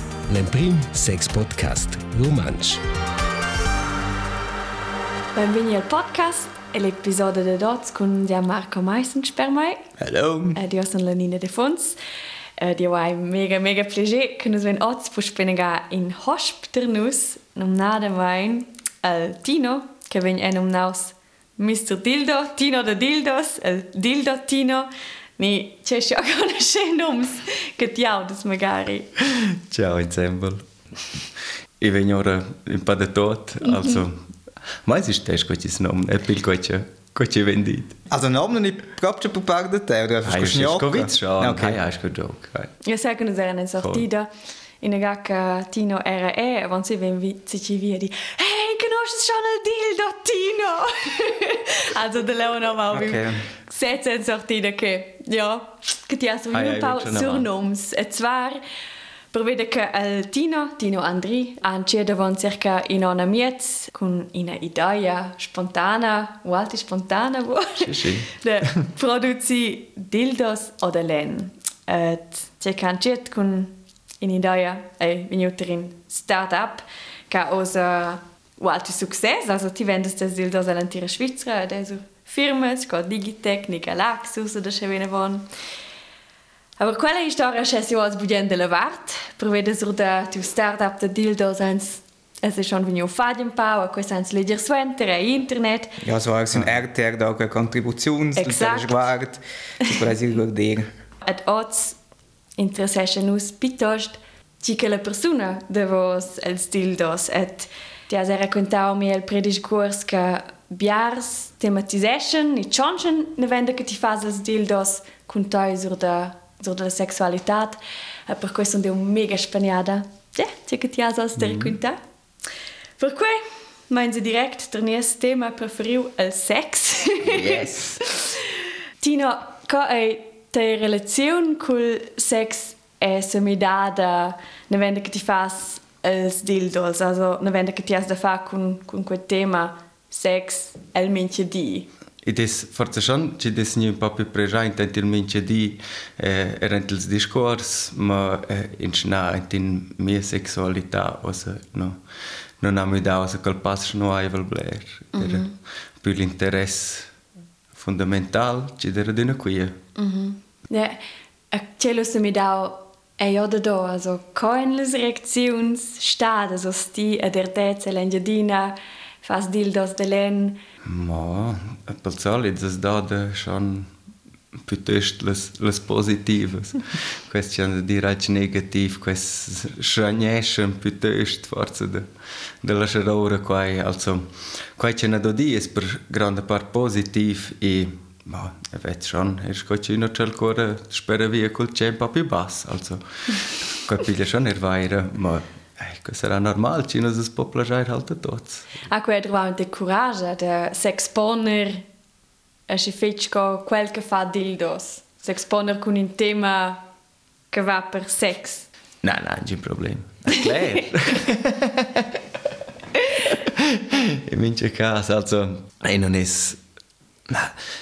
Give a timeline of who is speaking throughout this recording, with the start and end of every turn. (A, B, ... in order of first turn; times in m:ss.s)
0:00.3-0:02.8 A
0:05.3-0:09.8 B
0:10.0-0:10.6 C
0:10.5-0:12.0 B
0:12.6-0:29.1 B
0:29.7-0:30.6 D
0:31.8-0:34.1 D
0:34.8-0:38.0 D
0:38.1-0:41.8 C
0:40.2-0:42.7 D
0:42.8-0:44.3 B
0:43.8-0:44.0 D
0:44.8-0:58.6 B
0:52.9-0:53.4 C
0:56.5-0:57.4 D
0:59.3-1:25.5 B
1:07.8-1:08.4 D
1:26.8-1:36.0 B
1:36.0-1:40.9 C
1:36.5-1:36.8 D
1:38.4-1:39.1 B
1:41.2-1:42.0 B
1:42.6-2:02.0 B
2:01.4-2:01.7 D
2:03.0-2:08.5 B
2:07.3-2:07.8 D
2:09.0-2:21.9 B
2:22.2-2:32.0 D
2:32.6-2:35.5 D
2:35.1-2:35.5 B
2:36.0-2:37.1 D
2:37.7-2:39.7 D
2:40.0-2:41.0 B
2:41.5-2:50.6 B
2:50.8-2:53.9 D
2:54.6-3:02.0 D
3:02.6-3:18.7 D
3:18.9-3:21.8 B
3:22.7-3:26.8 B
3:27.5-3:28.7 B
3:29.0-3:32.0 D
3:33.4-3:36.6 D
3:37.3-3:37.6 D